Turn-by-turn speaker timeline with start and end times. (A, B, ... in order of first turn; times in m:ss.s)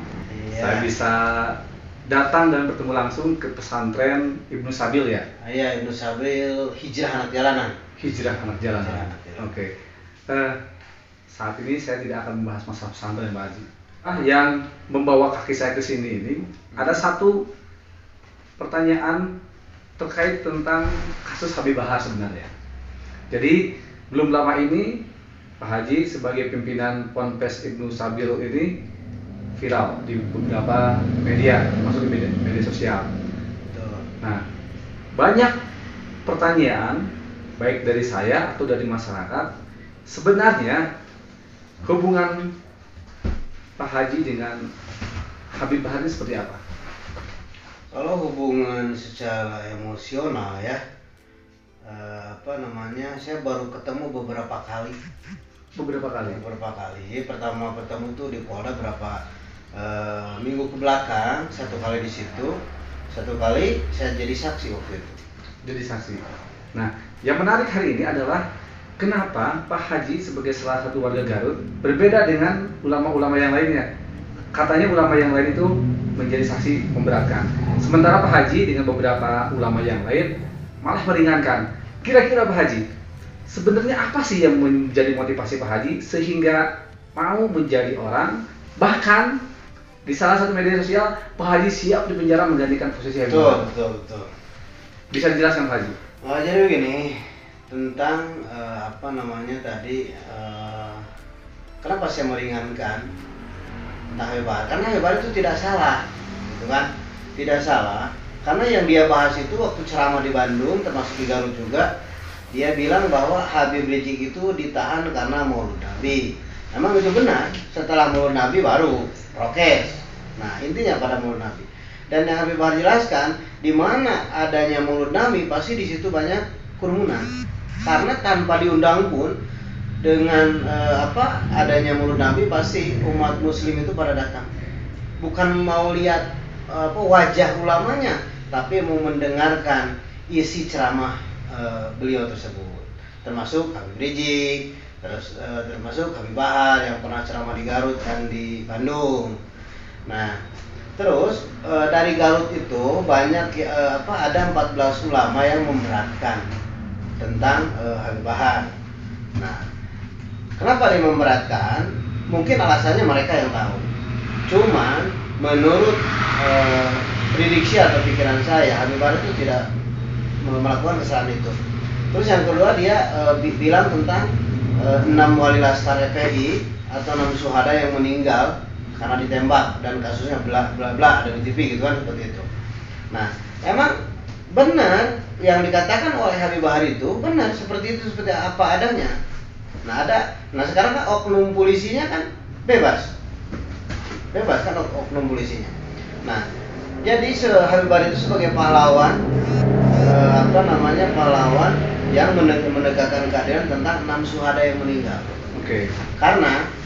0:00.3-0:00.9 A
0:00.6-0:05.3 B
0:05.4-0:07.8 A
0:08.0-0:09.7 B
0:08.7-0:09.5 A
0:10.3-0:10.6 B
0:11.3-0:17.4 B
0:18.6-0:19.2 B
0:20.0-0:22.5 B
0:23.3-0:23.6 B
0:24.1-0:25.0 B
0:25.6-0:28.7 B
0:29.6-0:33.1 B
0:33.7-0:34.1 A
0:35.2-0:35.6 B
0:36.3-0:37.0 B
0:37.6-0:39.5 B
0:40.1-0:40.8 B
0:41.8-0:42.4 B
0:43.8-0:44.6 B
0:45.6-0:46.6 B
0:47.9-0:50.8 A
0:51.8-0:55.0 A
0:55.8-0:56.4 B
0:56.2-0:59.2 A
0:59.8-1:02.6 A
1:03.1-1:05.2 A
1:05.6-1:06.2 B
1:06.7-1:08.4 B
1:09.0-1:13.8 B
1:14.5-1:20.3 B
1:20.8-1:22.8 B
1:23.5-1:26.6 B
1:27.2-1:29.3 B
1:30.1-1:33.6 B
1:33.3-1:34.3 A
1:35.1-1:36.0 B
1:36.2-1:41.1 A
1:41.8-1:43.1 A
1:44.1-1:51.9 A
1:52.5-2:07.3 A
2:07.8-2:09.3 A
2:10.0-2:14.5 A
2:15.2-2:29.4 A
2:30.1-2:30.4 A
2:31.0-2:36.4 A
2:37.2-2:38.7 A
2:40.6-2:43.9 A
2:44.5-2:49.7 A
2:50.4-2:51.6 A
2:52.1-3:02.4 A
3:03.1-3:03.9 A
3:04.5-3:09.2 A
3:09.8-3:13.1 A
3:14.3-3:15.7 A
3:17.0-3:19.2 A
3:20.0-3:25.4 A
3:25.6-3:25.9 B
3:26.2-3:26.6 A